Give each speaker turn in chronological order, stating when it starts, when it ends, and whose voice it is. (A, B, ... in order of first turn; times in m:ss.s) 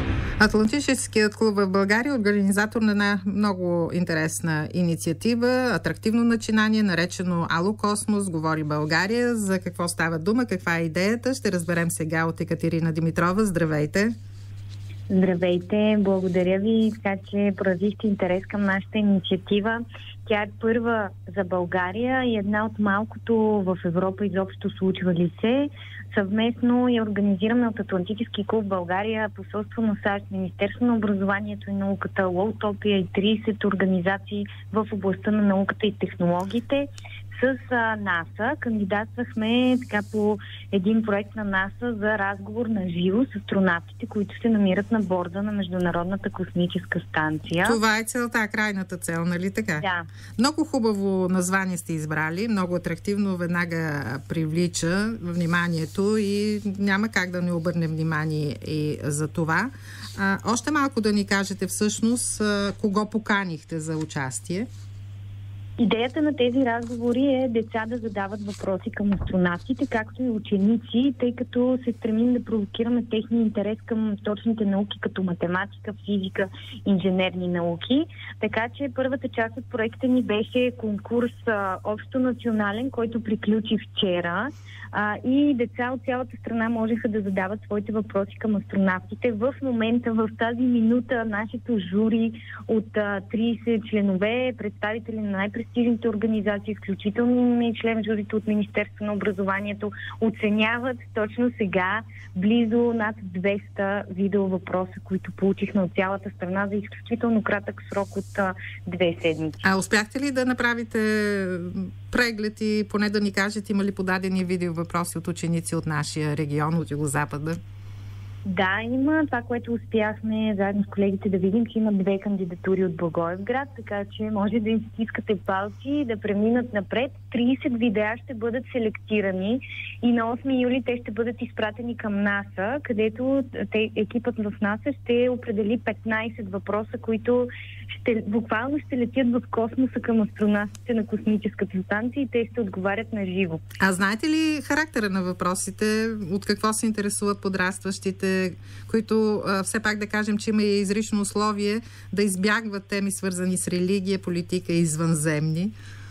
0:00.4-0:14.1 A
0:15.1-0:47.8 B
0:47.6-0:49.8 A
0:49.8-0:50.1 B
0:50.4-1:04.7 A
1:05.8-1:49.6 B
1:49.6-1:57.6 A
1:58.4-2:23.6 B
2:23.8-2:35.7 A